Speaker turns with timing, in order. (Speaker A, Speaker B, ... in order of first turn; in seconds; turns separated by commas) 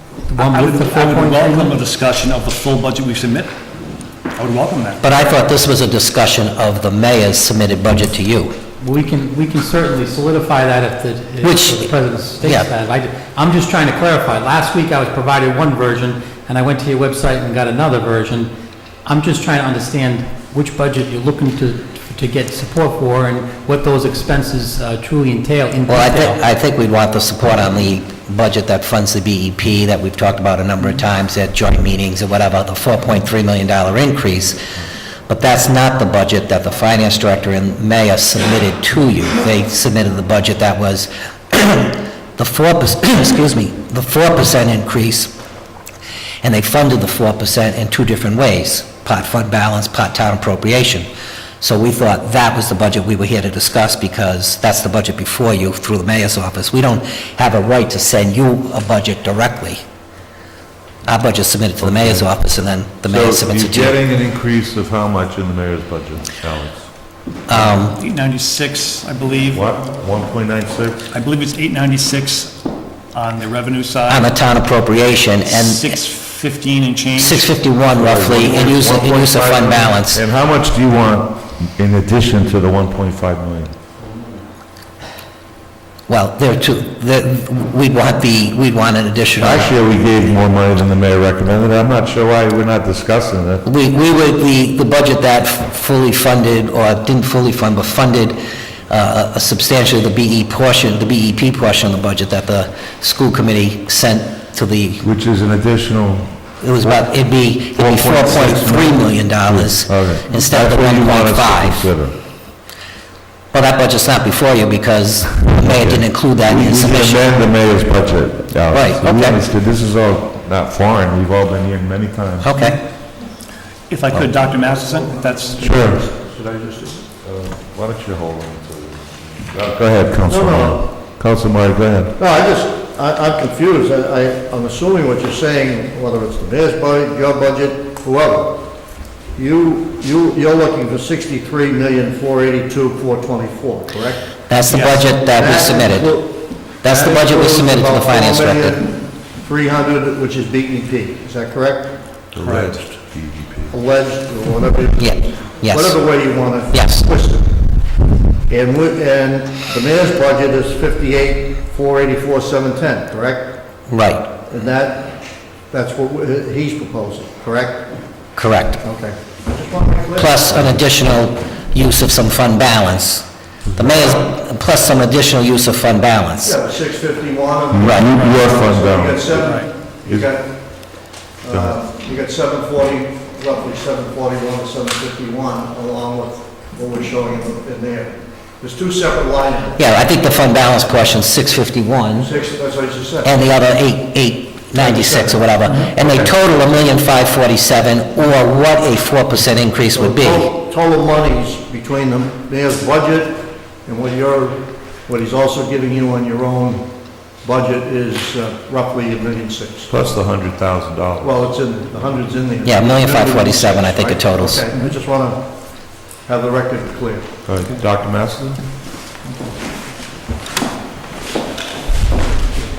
Speaker A: 0.2-1.7, Speaker B: 0.4-3.5, Speaker B: 4.3-5.1, Speaker C: 5.0-8.6, Speaker A: 8.8-18.5, Speaker C: 11.4-11.9, Speaker C: 12.4-12.7, Speaker A: 19.1-26.4, Speaker C: 25.9-34.6, Speaker C: 35.3-45.4, Speaker C: 46.4-51.1, Speaker C: 51.6-59.8, Speaker C: 61.0-64.0, Speaker D: 61.8-62.4, Speaker D: 63.0-67.0, Speaker C: 67.5-68.0, Speaker B: 67.9-69.7, Speaker D: 69.5-71.1, Speaker B: 71.1-72.6, Speaker B: 73.1-74.4, Speaker C: 74.1-75.9, Speaker B: 75.4-77.7, Speaker C: 77.2-80.2, Speaker D: 78.0-83.7, Speaker C: 86.1-89.8, Speaker D: 89.4-93.6, Speaker C: 93.6-105.0, Speaker D: 105.0-106.4, Speaker C: 106.6-112.0, Speaker D: 107.8-112.2, Speaker C: 113.5-117.3, Speaker D: 115.4-122.7, Speaker C: 118.7-119.4, Speaker C: 122.4-122.8, Speaker B: 123.9-125.9, Speaker E: 124.4-127.1, Speaker D: 125.6-126.0, Speaker D: 127.2-132.2, Speaker E: 130.3-130.8, Speaker E: 132.2-144.7, Speaker C: 144.5-148.8, Speaker B: 144.7-145.1, Speaker E: 145.2-152.2, Speaker D: 152.3-153.8, Speaker B: 152.4-152.8, Speaker E: 153.7-157.9, Speaker C: 155.0-156.0, Speaker C: 156.7-157.1, Speaker E: 158.5-163.8, Speaker C: 163.9-164.3, Speaker E: 164.5-168.3, Speaker C: 168.3-168.8, Speaker E: 168.8-170.8, Speaker C: 170.2-176.6, Speaker E: 176.4-189.8, Speaker D: 177.7-180.3, Speaker C: 177.8-178.1, Speaker B: 179.4-179.7, Speaker D: 181.5-181.8, Speaker C: 189.8-192.3, Speaker E: 192.2-193.3, Speaker C: 193.2-200.5, Speaker E: 194.8-196.3, Speaker E: 199.9-209.9, Speaker D: 209.9-211.5, Speaker E: 211.2-217.4, Speaker C: 212.7-214.7, Speaker D: 217.4-218.7